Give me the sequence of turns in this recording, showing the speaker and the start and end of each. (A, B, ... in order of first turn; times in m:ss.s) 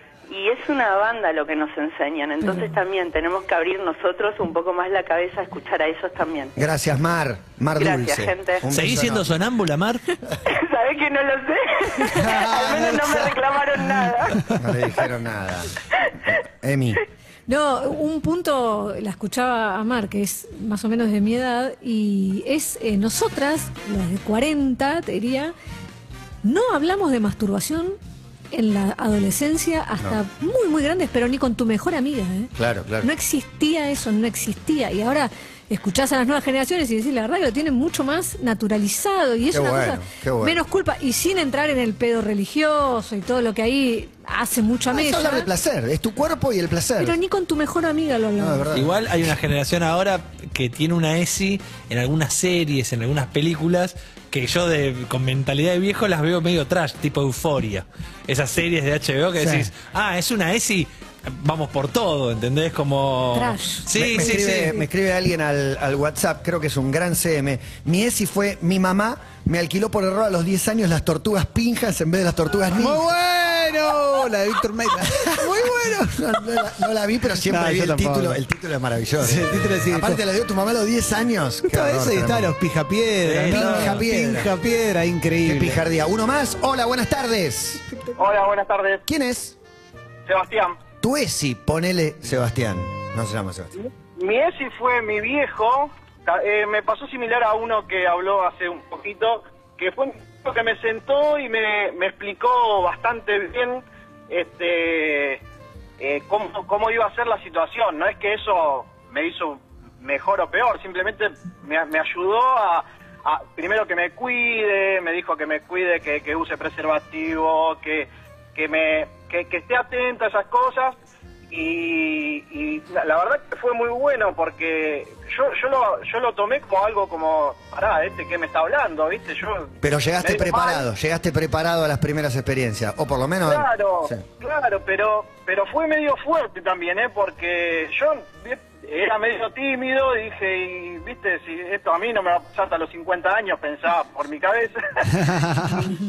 0:00.3-0:06.5 A
0:06.6-0:09.3 B
0:07.8-0:08.6 A
0:08.7-0:10.0 C
0:10.4-0:14.4 A
0:12.1-0:14.6 D
0:14.5-0:15.7 B
0:16.3-0:17.0 B
0:17.5-0:25.5 E
0:26.4-0:28.0 E
0:28.5-0:45.5 E
0:32.6-0:33.1 B
0:39.5-0:40.6 B
0:44.9-0:47.2 B
0:47.0-0:48.7 E
0:48.4-0:49.0 B
0:48.7-1:04.8 C
0:59.4-0:59.7 D
1:03.3-1:03.9 E
1:03.9-1:13.0 B
1:12.8-1:16.1 D
1:15.2-1:22.5 B
1:17.4-1:18.4 D
1:19.2-1:20.2 D
1:21.6-1:25.8 D
1:23.2-1:24.0 C
1:23.2-1:24.5 B
1:25.4-1:27.8 B
1:28.2-1:29.0 F
1:29.0-1:29.5 B
1:30.2-1:30.8 F
1:31.0-1:33.7 B
1:33.8-1:45.4 F
1:46.0-2:00.9 F
2:01.5-2:10.9 F
2:09.8-2:14.2 B
2:13.4-2:25.9 F
2:25.2-2:25.9 D